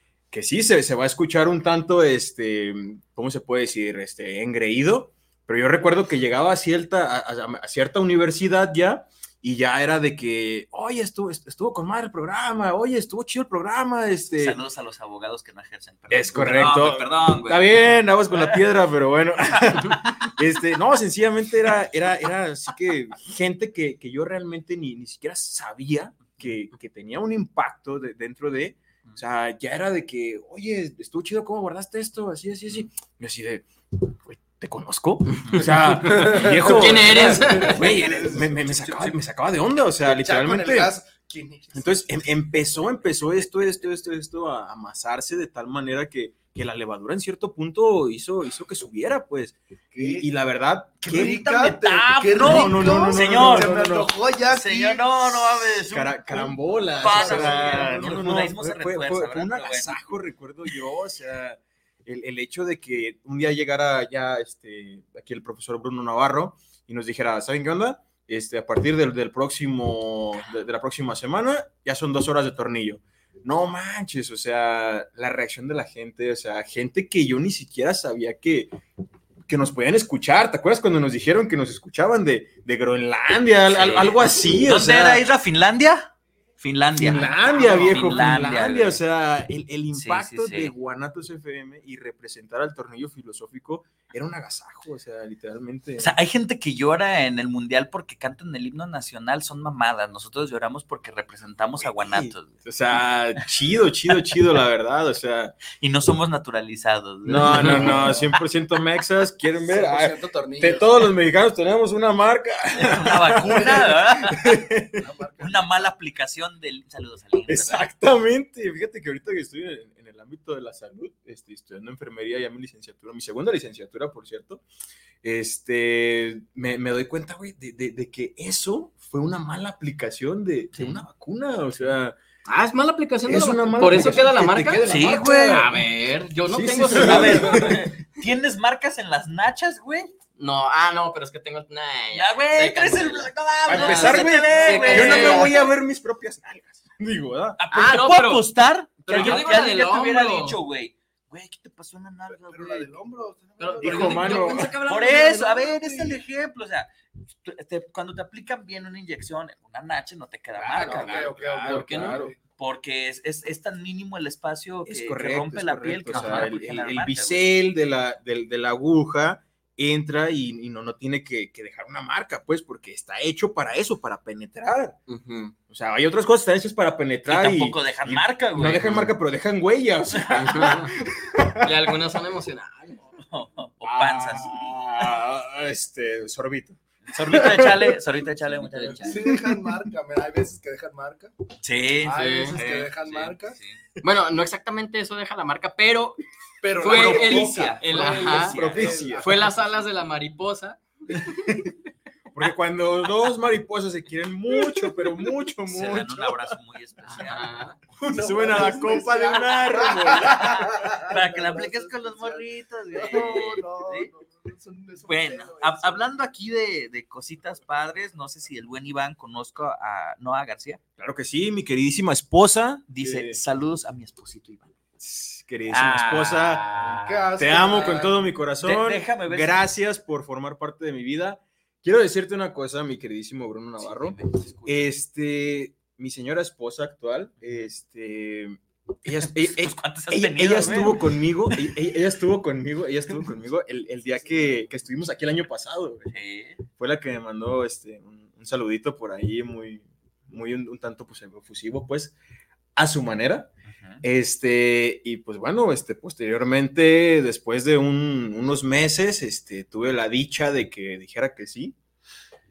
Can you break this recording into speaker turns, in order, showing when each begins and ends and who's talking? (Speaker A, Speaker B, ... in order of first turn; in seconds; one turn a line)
Speaker A: 0.3-14.6
Speaker B: 14.4-18.6
Speaker A: 16.1-40.9
Speaker B: 35.5-35.7
Speaker C: 36.0-39.1
Speaker D: 36.4-37.8
Speaker C: 40.0-42.2
Speaker A: 41.7-51.5
Speaker C: 49.9-50.3
Speaker B: 51.0-53.8
Speaker C: 51.0-55.7
Speaker A: 52.4-54.1
Speaker B: 54.5-56.4
Speaker A: 55.9-78.8
Speaker C: 57.0-58.2
Speaker B: 57.0-60.0
Speaker A: 79.5-85.2
Speaker B: 83.7-89.0
Speaker A: 87.0-96.1
Speaker B: 89.9-90.7
Speaker B: 96.0-102.6
Speaker A: 101.8-105.6
Speaker B: 105.8-108.2
Speaker A: 107.2-115.0
Speaker D: 107.5-107.8
Speaker C: 108.0-108.2
Speaker C: 109.6-110.9
Speaker B: 112.8-114.6
Speaker C: 113.5-113.8
Speaker C: 115.0-115.9
Speaker B: 115.4-117.9
Speaker A: 117.5-124.6
Speaker A: 125.2-132.2
Speaker D: 132.5-137.7
Speaker A: 133.3-135.8
Speaker B: 134.8-135.8
Speaker A: 136.5-137.9
Speaker B: 136.9-140.1
Speaker D: 140.4-145.6
Speaker B: 142.1-145.6
Speaker A: 143.7-147.6
Speaker C: 144.7-145.1
Speaker B: 147.6-152.9
Speaker D: 147.7-148.5
Speaker A: 149.1-149.6
Speaker D: 149.1-150.6
Speaker C: 152.5-154.8
Speaker D: 153.6-155.9
Speaker A: 153.8-154.7
Speaker B: 154.8-156.9
Speaker B: 157.4-161.3
Speaker A: 160.6-162.3
Speaker C: 160.7-162.4
Speaker D: 161.7-162.2
Speaker B: 162.6-167.5
Speaker A: 164.9-175.0
Speaker D: 166.1-166.5
Speaker D: 175.1-175.6
Speaker A: 175.7-181.9
Speaker B: 177.3-179.1
Speaker B: 180.1-180.4
Speaker D: 180.3-180.9
Speaker D: 181.6-183.1
Speaker B: 183.2-185.2
Speaker A: 183.8-188.0
Speaker B: 187.1-189.2
Speaker D: 188.6-189.1
Speaker C: 189.1-191.3
Speaker A: 189.2-189.6
Speaker B: 191.6-193.8
Speaker C: 192.0-193.6
Speaker D: 192.2-192.6
Speaker D: 194.0-196.2
Speaker C: 196.6-199.5
Speaker D: 196.8-198.6
Speaker B: 196.8-199.1
Speaker A: 197.9-199.5
Speaker D: 199.2-201.3
Speaker A: 201.4-201.7
Speaker A: 202.3-206.6
Speaker B: 205.7-207.7
Speaker D: 207.1-207.8
Speaker C: 208.0-216.1
Speaker A: 208.1-210.8
Speaker B: 210.2-214.1
Speaker B: 215.1-220.8
Speaker A: 221.0-223.4
Speaker B: 222.9-224.8
Speaker A: 225.0-226.7
Speaker B: 225.7-227.3
Speaker C: 226.7-228.2
Speaker A: 227.4-246.1
Speaker B: 228.6-229.6
Speaker B: 233.8-234.9
Speaker B: 239.1-241.8
Speaker B: 246.1-246.6
Speaker A: 246.8-252.1
Speaker A: 252.8-253.5
Speaker B: 253.7-254.0
Speaker A: 254.0-261.8